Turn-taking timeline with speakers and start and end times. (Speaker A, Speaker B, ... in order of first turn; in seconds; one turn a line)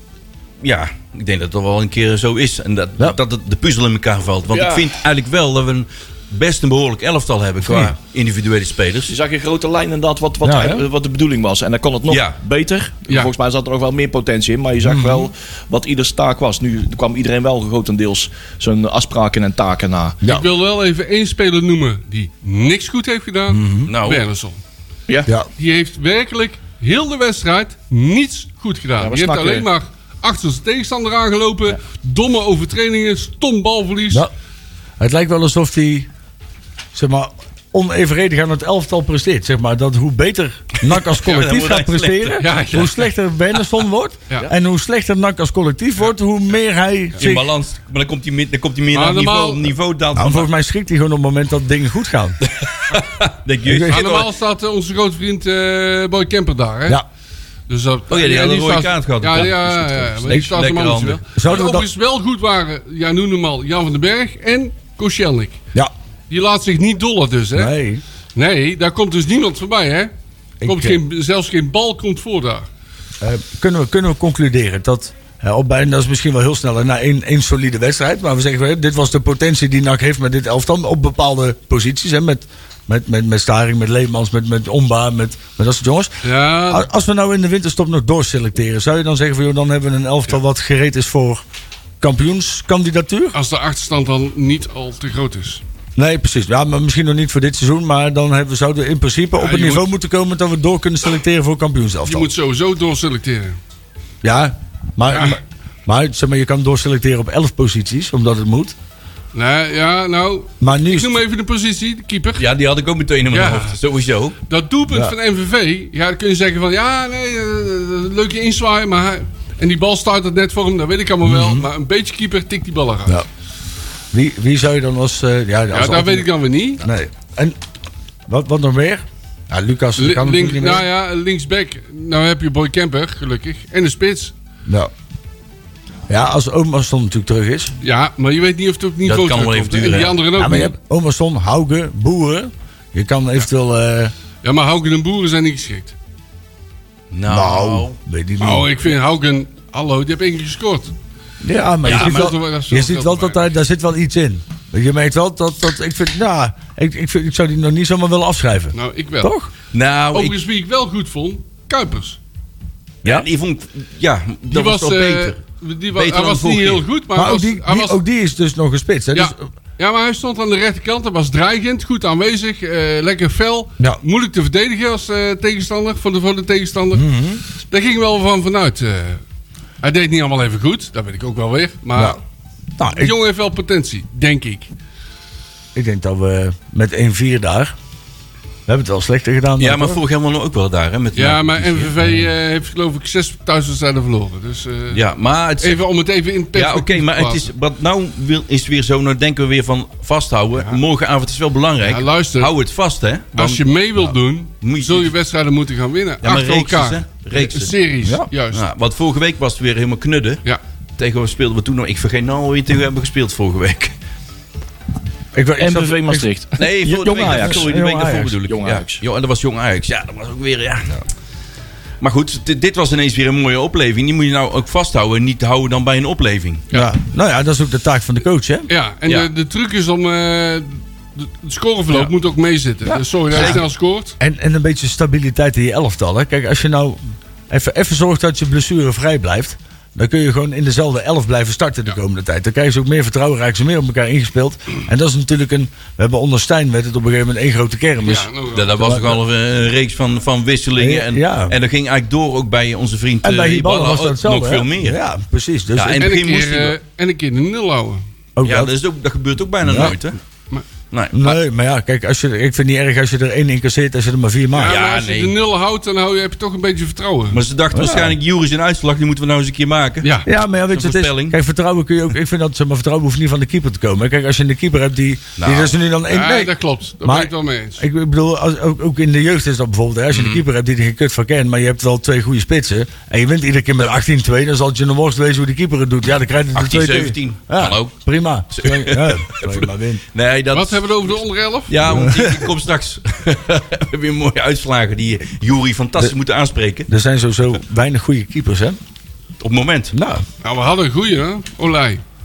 Speaker A: 0.6-9.1
Speaker B: 4.5-4.9
Speaker C: 7.6-7.9
Speaker B: 9.1-20.2
Speaker C: 10.4-10.8
Speaker A: 12.1-12.4
Speaker C: 14.8-15.3
Speaker D: 20.3-24.6
Speaker C: 23.5-23.9
Speaker A: 23.8-24.2
Speaker D: 25.6-34.2
Speaker B: 29.0-29.7
Speaker C: 35.0-36.1
Speaker C: 36.9-47.5
Speaker A: 40.9-42.5
Speaker D: 42.4-43.0
Speaker A: 47.2-50.5
Speaker D: 48.9-49.7
Speaker C: 50.1-52.4
Speaker A: 52.4-54.3
Speaker C: 53.6-54.0
Speaker D: 53.9-57.0
Speaker D: 57.7-65.6
Speaker A: 58.1-61.2
Speaker C: 61.3-61.9
Speaker D: 66.3-67.7
Speaker C: 67.5-68.0
Speaker D: 68.3-70.1
Speaker C: 70.6-71.0
Speaker D: 70.6-72.6
Speaker C: 73.2-86.1
Speaker D: 86.2-86.9
Speaker C: 86.7-91.4
Speaker C: 92.0-93.3
Speaker D: 93.3-95.6
Speaker C: 96.0-102.3
Speaker D: 99.4-99.9
Speaker D: 102.0-103.6
Speaker C: 104.2-108.8
Speaker D: 105.1-105.4
Speaker D: 109.3-112.4
Speaker C: 110.6-111.2
Speaker A: 112.4-114.3
Speaker D: 113.3-113.8
Speaker D: 114.5-123.2
Speaker C: 114.9-115.1
Speaker C: 121.2-121.7
Speaker C: 124.1-127.5
Speaker D: 125.7-126.8
Speaker C: 128.3-130.8
Speaker D: 130.0-134.3
Speaker C: 136.1-137.7
Speaker D: 137.8-140.7
Speaker A: 139.0-140.2
Speaker C: 140.4-144.1
Speaker D: 144.4-145.9
Speaker A: 147.1-147.9
Speaker C: 147.3-148.7
Speaker D: 148.4-150.9
Speaker C: 151.4-159.5
Speaker D: 151.8-153.5
Speaker A: 151.8-152.3
Speaker D: 158.7-159.3
Speaker A: 159.7-160.4
Speaker D: 160.1-162.2
Speaker A: 163.0-165.4
Speaker D: 164.5-168.0
Speaker A: 165.9-166.8
Speaker C: 167.1-169.4
Speaker D: 169.1-177.1
Speaker C: 176.9-177.4
Speaker D: 177.6-179.2
Speaker D: 179.8-182.2
Speaker C: 182.8-183.1
Speaker D: 182.9-184.7
Speaker C: 185.7-187.7
Speaker C: 188.7-190.0
Speaker A: 189.6-192.0
Speaker D: 191.2-195.0
Speaker A: 194.9-195.8
Speaker D: 195.6-197.4
Speaker A: 196.5-205.1
Speaker D: 201.8-202.5
Speaker D: 203.3-208.6
Speaker A: 206.2-207.7
Speaker A: 208.5-210.4
Speaker A: 211.0-213.9
Speaker C: 215.3-216.3
Speaker B: 215.6-217.8
Speaker A: 216.6-220.9
Speaker C: 216.8-218.3
Speaker B: 218.4-219.0
Speaker A: 222.0-226.6
Speaker C: 226.7-228.7
Speaker D: 228.7-234.2
Speaker C: 232.9-233.6
Speaker A: 233.3-233.6
Speaker C: 234.2-249.2
Speaker D: 248.0-248.8
Speaker A: 248.5-255.0
Speaker C: 250.8-251.6
Speaker C: 253.2-256.1
Speaker A: 255.8-256.8
Speaker D: 256.0-258.0
Speaker C: 258.4-258.7
Speaker A: 258.4-260.2
Speaker C: 259.6-259.9
Speaker A: 260.9-261.4
Speaker C: 261.1-264.8
Speaker D: 264.5-267.4
Speaker A: 264.6-265.3
Speaker A: 267.3-270.1
Speaker C: 267.7-268.2
Speaker D: 270.0-270.3
Speaker C: 270.2-290.0
Speaker A: 270.7-271.4
Speaker A: 275.4-275.7
Speaker D: 276.1-277.8
Speaker A: 280.1-280.4
Speaker A: 286.5-288.0
Speaker A: 288.5-291.2
Speaker D: 290.5-291.9
Speaker A: 291.7-296.9
Speaker C: 291.8-292.5
Speaker C: 296.9-298.8
Speaker A: 299.4-299.9
Speaker C: 299.9-300.2
Speaker D: 300.4-302.0